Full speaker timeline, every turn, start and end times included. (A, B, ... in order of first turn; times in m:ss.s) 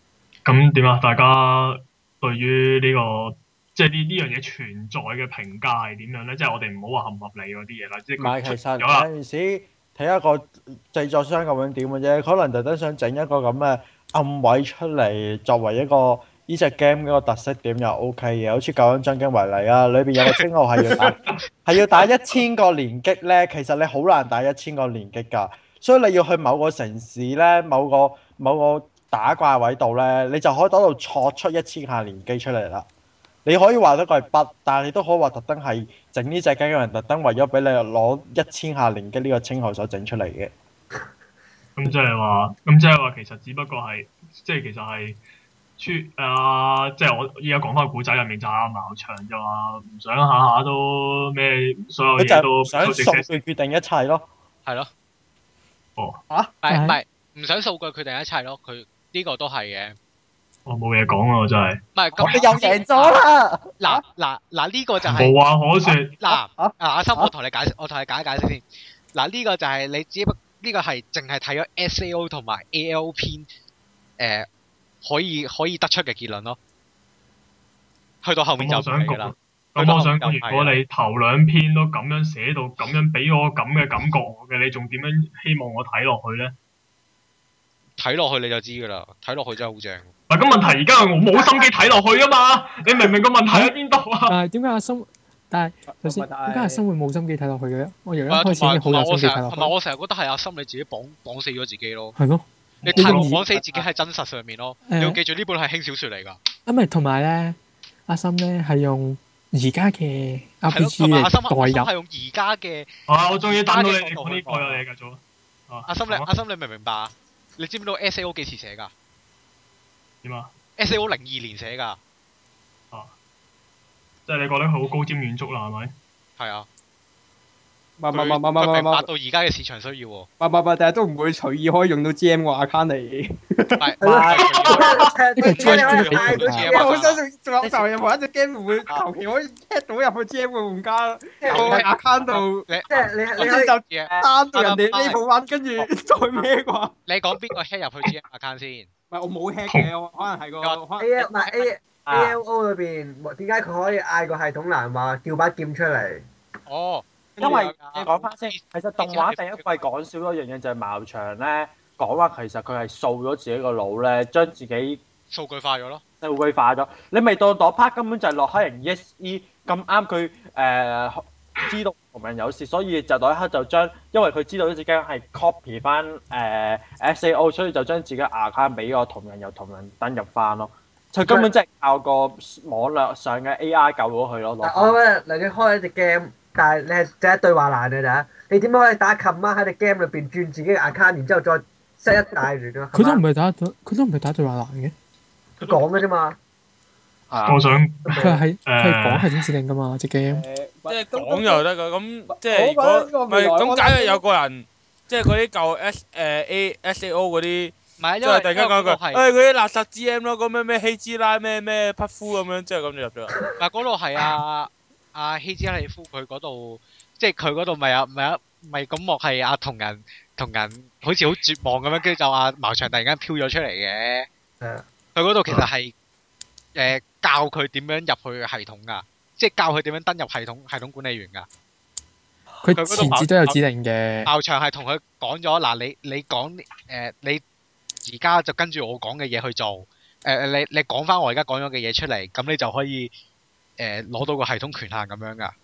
0:00.4-0:09.1 A
0:08.2-0:32.8 B
0:33.4-0:40.5 B
0:41.8-0:45.2 A
0:45.8-0:53.3 A
0:52.2-0:54.3 B
0:56.6-1:00.0 C
0:56.7-0:57.0 D
1:00.6-1:01.8 A
1:01.9-1:03.2 C
1:02.2-1:03.8 B
1:03.8-1:05.3 C
1:05.2-1:06.2 A
1:06.2-1:13.5 C
1:06.6-1:07.3 B
1:14.2-1:14.5 C
1:15.0-1:16.6 C
1:18.2-1:20.8 C
1:18.6-1:26.5 A
1:28.0-1:30.1 C
1:30.3-1:34.3 A
1:33.5-1:33.7 D
1:34.3-1:39.7 D
1:35.8-1:36.8 E
1:38.3-1:42.2 C
1:42.2-1:43.4 D
1:42.8-1:46.4 C
1:42.8-1:43.3 A
1:43.5-1:43.8 E
1:44.8-1:45.2 D
1:46.6-1:51.9 D
1:50.7-1:52.9 C
1:53.1-1:56.3 A
1:53.5-1:54.8 C
1:55.9-1:58.9 C
2:00.2-2:00.5 A
2:00.8-2:02.0 C
2:04.3-2:05.9 A
2:06.4-2:06.7 C
2:08.0-2:09.1 E
2:08.1-2:10.3 C
2:10.4-2:13.9 E
2:13.8-2:17.2 C
2:14.0-2:16.9 F
2:14.6-2:15.1 A
2:15.4-2:16.8 D
2:15.5-2:22.8 E
2:21.4-2:21.8 F
2:21.5-2:25.2 C
2:22.9-2:23.7 F
2:23.4-2:26.9 E
2:27.0-2:28.9 C
2:29.1-2:31.1 E
2:30.6-2:31.7 C
2:31.0-2:36.2 F
2:32.0-2:32.4 B
2:36.7-2:39.7 C
2:37.4-2:38.2 E
2:37.4-2:45.0 B
2:45.3-2:46.0 C
2:46.2-3:05.0 B
3:04.6-3:13.2 F
3:12.9-3:14.9 D
3:15.6-3:16.4 F
3:17.3-3:17.6 B
3:17.4-3:19.4 A
3:18.1-3:18.4 F
3:18.2-3:20.4 D
3:20.3-3:21.6 E
3:20.9-3:33.4 G
3:22.3-3:24.2 E
3:28.0-3:29.2 C
3:33.6-3:44.3 C
3:45.1-3:45.9 C
3:46.7-3:51.5 C
3:52.6-3:54.3 D
3:52.7-3:53.6 C
3:54.2-3:57.4 C
3:58.0-4:03.1 C
4:03.8-4:05.5 C